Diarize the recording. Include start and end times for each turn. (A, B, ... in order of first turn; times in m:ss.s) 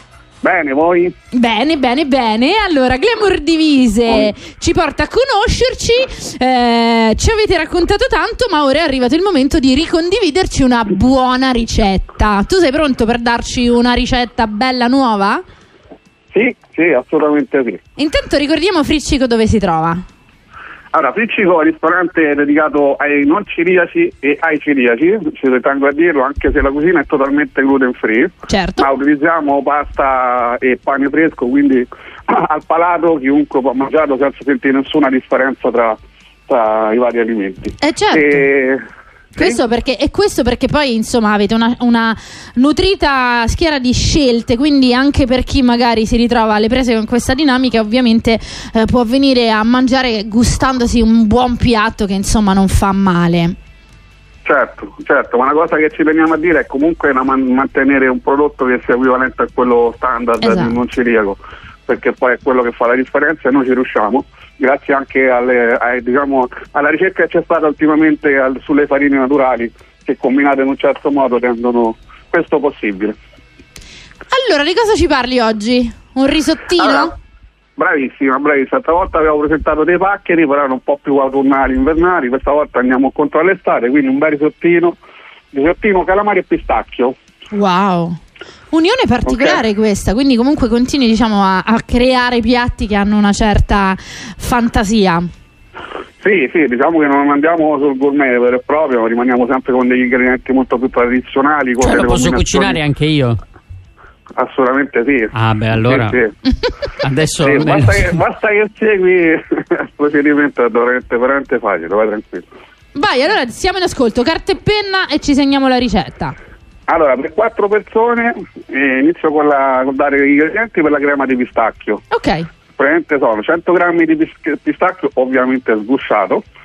0:00.4-0:01.1 A
0:01.3-0:15.4 B
0:04.1-0:04.3 A
0:16.3-0:17.8 A
0:18.0-0:20.0 B
0:20.9-0:38.8 A
0:28.5-0:28.9 B
0:37.8-0:38.5 B
0:39.4-0:53.6 B
0:54.4-1:13.2 A
1:00.4-1:00.8 B
1:14.3-1:17.1 B
1:16.8-1:17.1 A
1:17.8-1:25.0 A
1:25.5-1:27.1 A
1:27.5-1:28.2 B
1:28.7-1:35.3 B
1:29.2-1:29.6 A
1:36.2-1:42.8 A
1:41.8-1:43.4 C
1:44.4-1:46.4 A
1:45.3-1:46.2 C
1:47.0-1:48.2 C
1:47.4-1:52.5 A
1:52.9-1:56.4 B
1:56.9-2:02.0 A
2:02.1-2:02.5 B
2:02.7-2:06.4 A